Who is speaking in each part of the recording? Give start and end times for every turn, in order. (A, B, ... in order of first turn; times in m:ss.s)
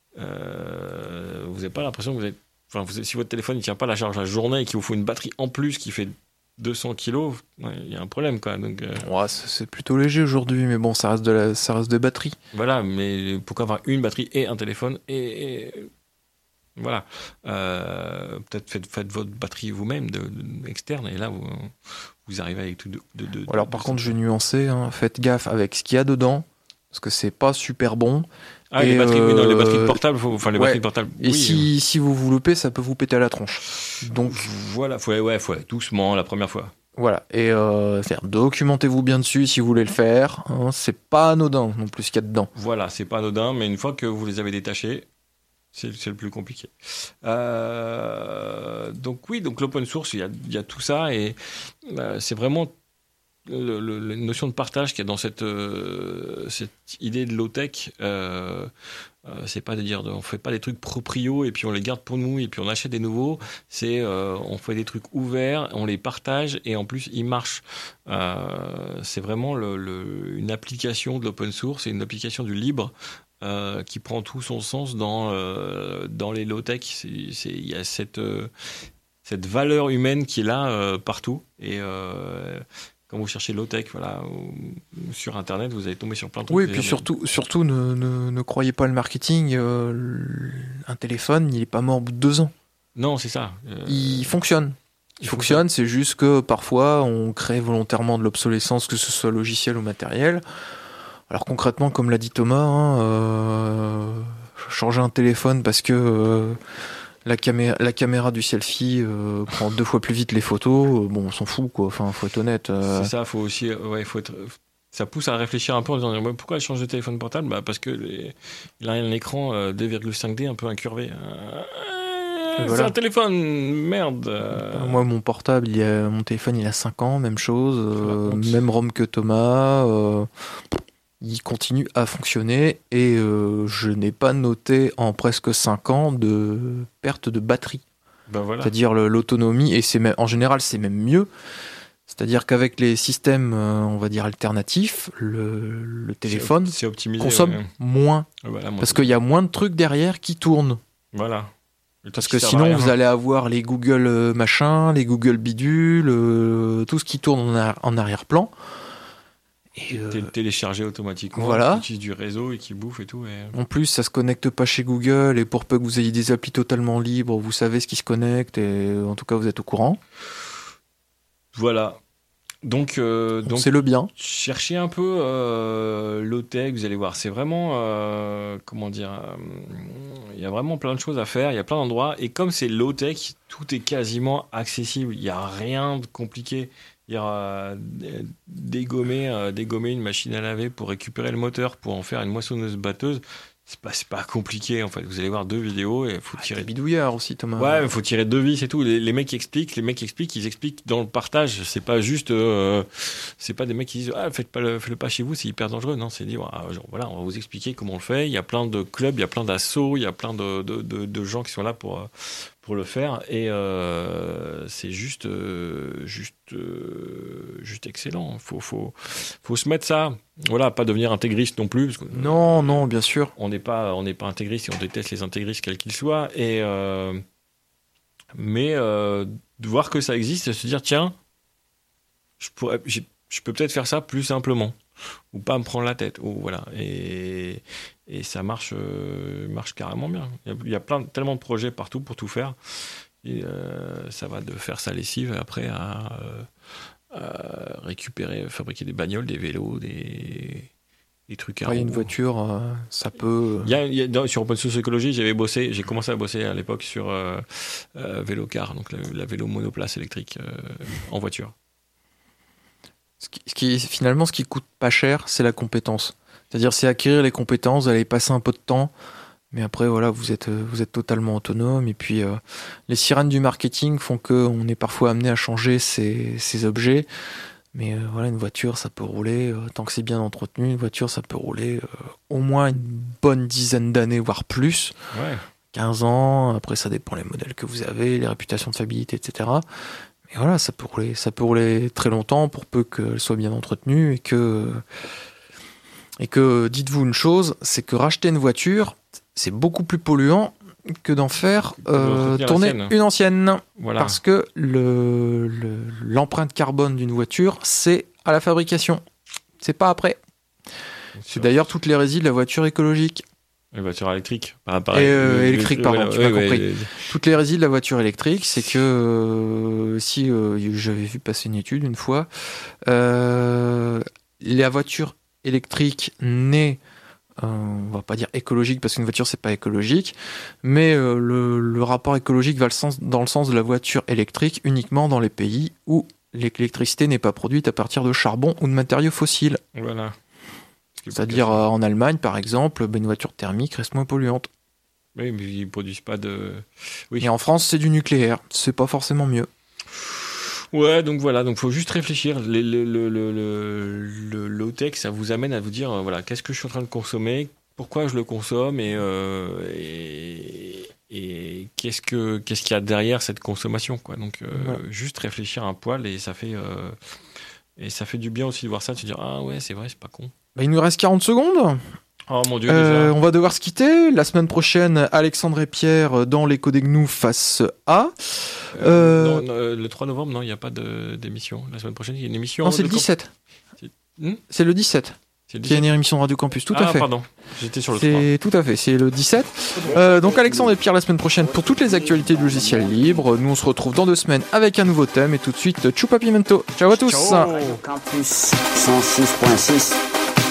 0:00.2-0:09.1 A
0:09.0-0:12.4 B
0:12.5-0:15.9 A
0:16.8-0:24.2 A
0:23.5-0:34.5 B
0:28.7-0:31.7 A
0:34.0-0:36.7 A
0:37.0-0:42.5 B
0:42.5-0:45.1 A
0:45.7-0:52.7 A
0:53.5-0:58.7 A
0:59.3-1:18.5 A
1:19.2-1:27.1 A
1:26.5-1:32.5 B
1:33.0-1:34.4 A
1:33.9-1:40.4 B
1:35.2-1:35.6 A
1:41.3-1:46.6 B
1:47.2-1:53.1 B
1:52.8-2:05.0 A
2:02.6-2:03.0 B
2:04.5-2:17.8 B
2:08.0-2:08.6 A
2:18.3-2:18.7 A
2:18.6-2:21.3 B
2:22.1-2:28.3 B
2:26.2-2:27.7 A
2:28.4-2:29.1 A
2:28.8-2:30.8 B
2:31.1-2:31.5 A
2:32.0-2:33.0 A
2:32.2-2:38.5 B
2:39.8-2:40.3 B
2:39.9-2:43.6 A
2:41.3-2:41.8 B
2:43.5-2:50.0 B
2:51.5-2:52.0 A
2:52.6-3:16.7 A
2:53.4-2:54.1 B
3:16.4-3:17.9 B
3:17.6-3:47.2 A
3:42.1-3:43.3 B
3:48.3-3:51.2 A
3:52.4-3:54.8 A
3:55.3-4:06.5 A
4:07.1-4:10.7 A
4:11.3-4:12.1 A
4:11.7-4:13.7 B
4:13.6-4:21.5 A
4:23.2-4:28.9 B
4:29.5-4:37.1 B
4:37.7-4:45.0 B
4:45.1-4:45.5 A
4:45.7-4:49.6 B
4:50.3-4:54.8 B
4:56.2-5:09.0 B
5:01.8-5:02.9 A
5:03.8-5:04.2 A
5:09.6-5:10.2 B
5:11.2-5:11.5 A
5:11.3-5:13.2 B
5:13.7-5:17.0 A
5:14.9-5:22.3 B
5:22.8-5:26.8 B
5:27.4-5:39.6 B
5:39.8-5:40.2 A
5:41.0-5:41.7 A
5:41.1-5:44.5 B
5:45.2-5:47.3 A
5:47.2-5:49.5 B
5:50.0-6:07.0 A
6:04.5-6:04.8 B
6:07.8-6:10.3 A
6:10.6-6:11.9 B
6:12.3-6:13.2 A
6:12.7-6:19.4 B
6:18.7-6:23.1 A
6:22.6-6:23.3 B
6:23.8-6:24.4 A
6:24.5-6:27.1 B
6:25.5-6:25.9 A
6:26.7-6:28.3 A
6:27.9-6:37.5 B
6:29.8-6:30.8 C
6:31.4-6:33.3 C
6:36.9-6:37.8 A
6:37.1-6:40.0 C